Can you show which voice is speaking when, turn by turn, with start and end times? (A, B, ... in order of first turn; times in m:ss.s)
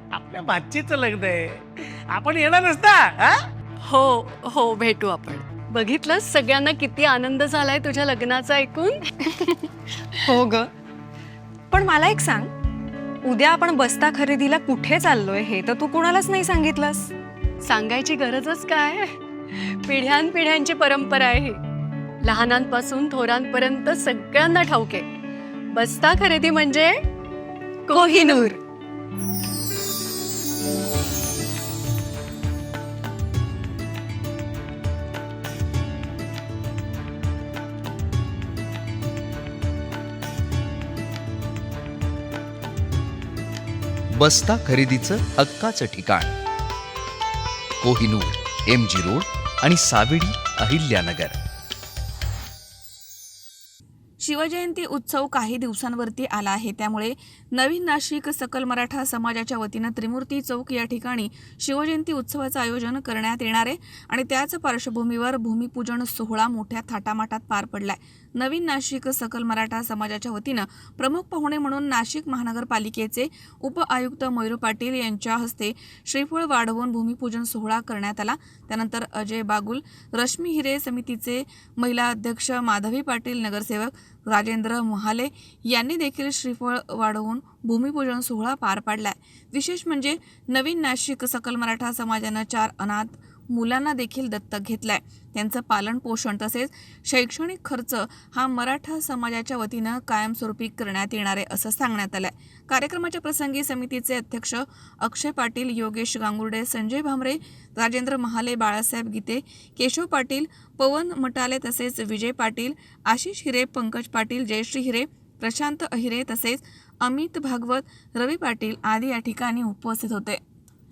0:00.2-0:03.3 A
0:03.8-0:09.0 B
0:10.3-0:10.7 C
0:11.7-0:12.5 C
0:13.2-0:17.1 C
0:17.6-0:21.6 B
0:22.2-0:25.1 B
0:25.7-0:27.0 B
0:27.9-0:28.5 B
0:44.2-0:46.3 D
0:47.8-0:51.3 D
0:54.2-2:00.4 E